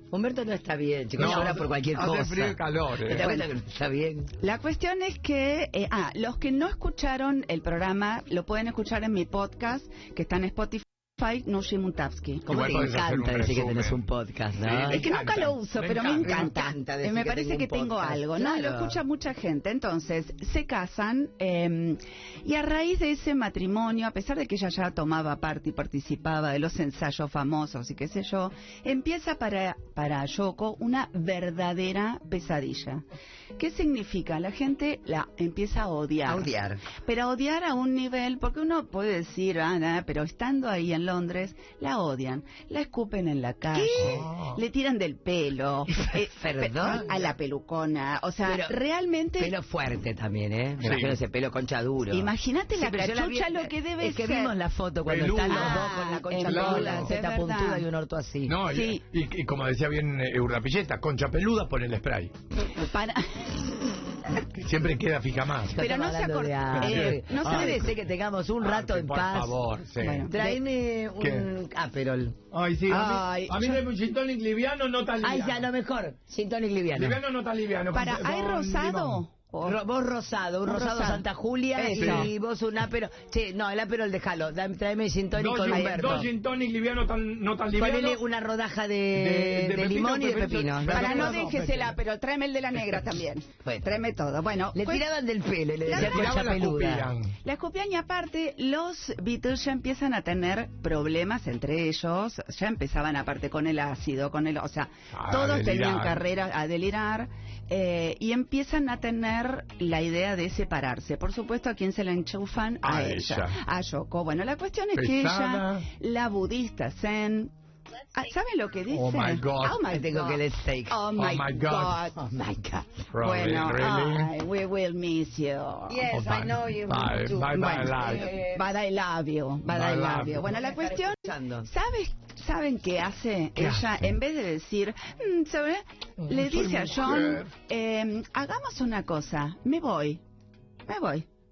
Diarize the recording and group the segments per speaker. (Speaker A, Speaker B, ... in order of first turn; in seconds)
Speaker A: 0.1-4.3, 12.4-15.1, 15.9-19.0, 36.2-36.8, 43.7-44.2, 46.1-47.2, 48.4-48.8, 49.4-58.6, 65.7-69.6, 70.3-72.3, 75.2-77.2, 79.6-86.3, 87.7-91.4, 93.6-93.9, 94.7-97.1, 119.9-121.0, 122.2-122.9, 125.9-128.6, 130.5-131.7
Speaker B: 1.1-3.5, 12.5-14.0, 14.6-16.5, 43.9-44.6, 50.8-51.2, 55.0-55.9, 56.5-57.1, 58.5-62.3, 64.5-65.8, 66.8-67.1, 68.6-70.3, 71.2-71.5, 72.5-75.7, 76.9-79.2, 81.9-82.3, 85.3-88.2, 89.1-91.9, 95.8-97.3, 105.1-106.2, 112.8-113.6, 114.9-115.9, 118.9-119.8, 121.1-122.0, 123.1-124.3, 126.1-128.3, 129.6-130.5, 136.2-137.5
Speaker C: 4.4-12.5, 14.9-33.0, 33.6-36.5, 37.0-49.5, 52.1-54.5, 55.4-57.9, 58.7-59.0, 62.7-63.6, 65.8-68.0, 70.0-70.6, 72.9-73.8, 77.9-79.8, 80.7-82.3, 85.7-86.2, 90.8-95.1, 95.8-96.3, 97.4-117.5, 118.1-122.2, 123.2-126.0, 127.5-140.2, 140.9-141.3